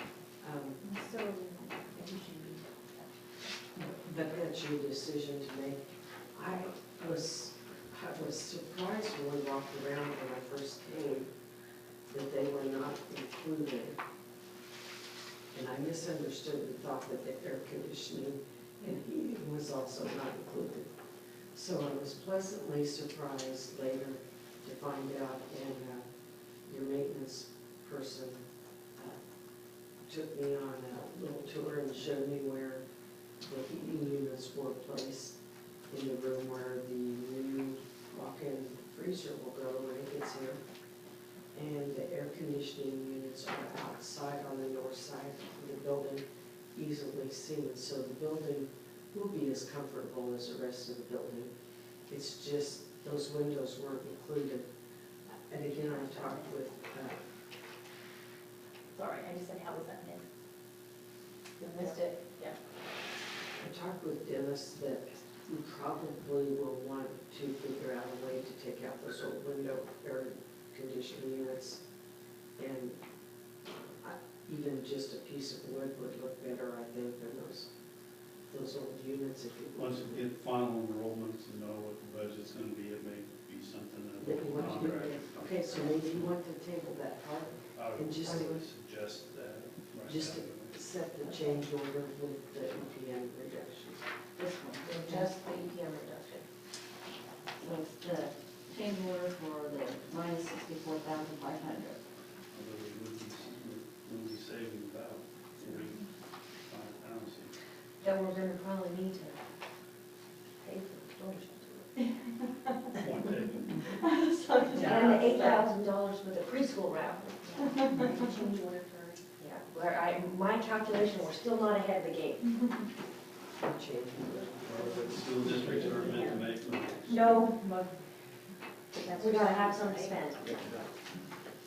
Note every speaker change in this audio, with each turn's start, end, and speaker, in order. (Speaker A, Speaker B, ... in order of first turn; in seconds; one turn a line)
Speaker A: 0.4-0.8
Speaker B: 0.8-3.1
Speaker A: 3.8-11.3
Speaker A: 12.1-14.0
Speaker A: 15.5-20.9
Speaker A: 21.5-26.1
Speaker A: 26.7-28.4
Speaker A: 30.1-32.8
Speaker A: 33.4-35.4
Speaker A: 35.9-40.6
Speaker A: 41.5-51.5
Speaker A: 52.1-54.7
Speaker A: 55.5-57.2
Speaker B: 55.8-56.5
Speaker B: 58.9-60.2
Speaker C: 61.6-62.0
Speaker B: 61.6-62.6
Speaker A: 63.6-71.8
Speaker A: 72.6-73.0
Speaker A: 74.0-77.7
Speaker A: 78.5-80.2
Speaker D: 79.8-86.3
Speaker A: 84.2-88.6
Speaker D: 87.8-90.8
Speaker A: 90.0-94.0
Speaker E: 94.4-95.3
Speaker C: 94.8-96.5
Speaker E: 97.6-102.0
Speaker C: 97.7-98.0
Speaker D: 102.5-106.0
Speaker D: 106.7-107.5
Speaker C: 108.0-109.4
Speaker C: 110.6-112.0
Speaker D: 113.0-113.9
Speaker E: 114.5-115.5
Speaker B: 114.7-115.4
Speaker C: 114.7-118.3
Speaker B: 117.7-118.5
Speaker C: 119.3-122.7
Speaker A: 123.6-126.4
Speaker D: 124.6-127.3
Speaker B: 126.0-126.3
Speaker C: 127.1-127.6
Speaker B: 127.2-127.8
Speaker B: 129.0-130.2
Speaker C: 129.1-130.8